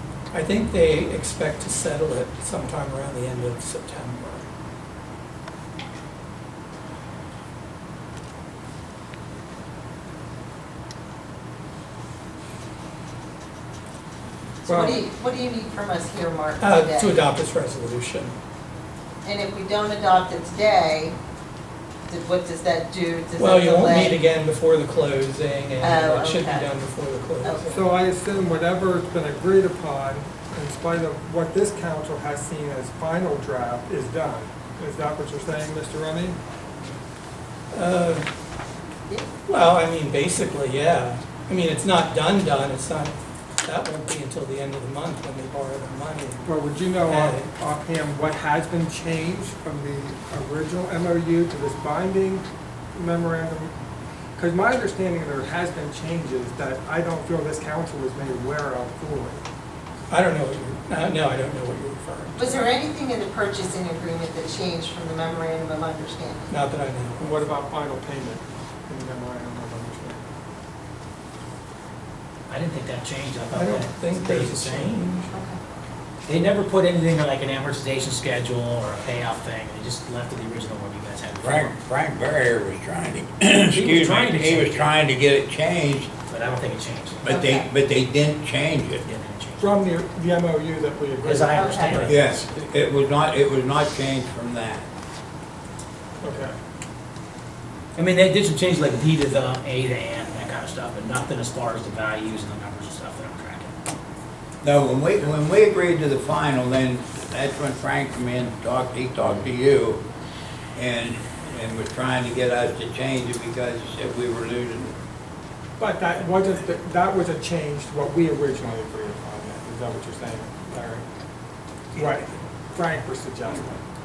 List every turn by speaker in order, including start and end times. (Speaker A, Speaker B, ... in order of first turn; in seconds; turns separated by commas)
Speaker A: 0.3-4.5, Speaker B: 14.7-17.2, Speaker C: 14.7-15.0, Speaker A: 16.6-18.4, Speaker B: 19.2-21.2, Speaker B: 22.1-24.2, Speaker A: 23.4-27.8, Speaker B: 25.8-26.7, Speaker C: 27.7-36.4, Speaker A: 37.7-38.3, Speaker A: 39.5-46.4, Speaker C: 46.5-53.7, Speaker A: 47.1-47.5, Speaker C: 54.4-59.4, Speaker A: 60.1-62.7, Speaker B: 62.4-66.5, Speaker A: 66.5-67.5, Speaker C: 67.2-70.2, Speaker D: 72.5-75.0, Speaker C: 73.5-73.8, Speaker A: 73.6-75.3, Speaker B: 75.3-75.6, Speaker D: 76.3-81.8, Speaker E: 81.4-86.1, Speaker D: 83.6-85.0, Speaker D: 86.3-87.3, Speaker E: 87.2-89.0, Speaker B: 87.3-87.7, Speaker D: 89.0-89.8, Speaker C: 89.6-92.4, Speaker D: 91.2-92.5, Speaker B: 91.5-92.1, Speaker E: 92.1-94.9, Speaker C: 96.2-96.6, Speaker D: 98.0-103.7, Speaker E: 104.6-110.0, Speaker E: 110.8-115.0, Speaker C: 115.8-121.1, Speaker C: 121.9-123.8